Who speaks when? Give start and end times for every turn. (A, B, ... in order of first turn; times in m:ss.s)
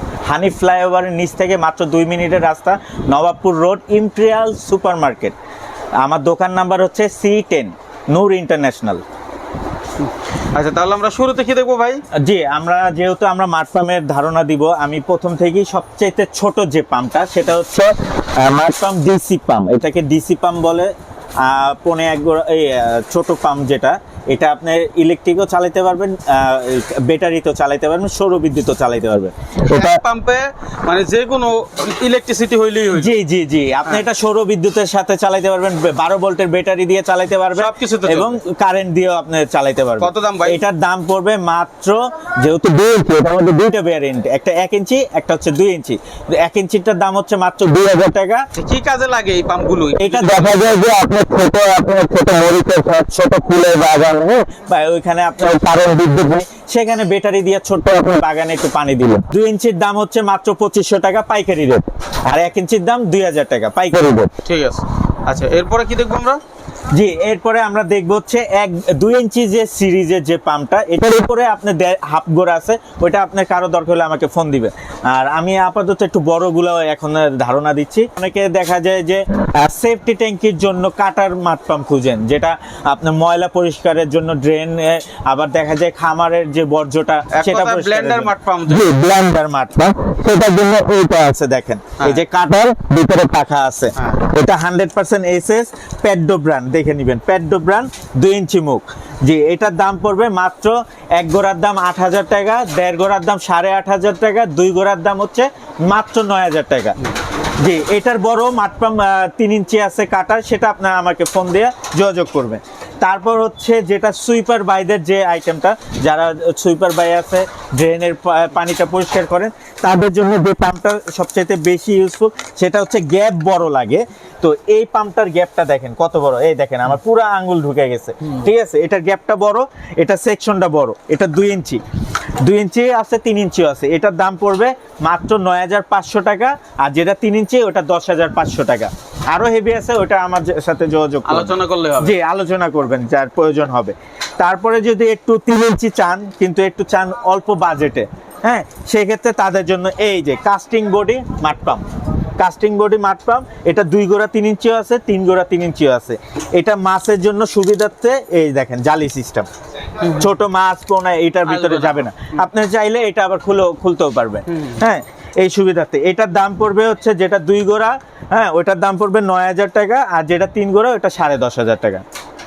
0:00.2-0:05.4 A
0:06.0-0:09.0 A
0:10.0-0:12.0 B
0:12.2-0:29.8 A
0:29.6-0:33.2 B
0:32.9-0:48.4 A
0:37.5-0:38.4 B
0:40.0-0:40.6 B
0:48.5-0:50.8 B
0:50.0-1:04.3 A
1:04.4-1:06.4 B
1:06.9-1:47.0 A
1:27.3-1:28.9 B
1:32.0-1:32.2 B
1:34.0-1:34.2 B
1:47.6-2:11.8 A
2:12.4-2:31.8 A
2:21.2-2:22.1 B
2:32.4-2:39.5 A
2:40.0-2:40.3 B
2:40.0-2:52.0 A
2:41.5-2:42.4 B
2:44.5-2:44.8 B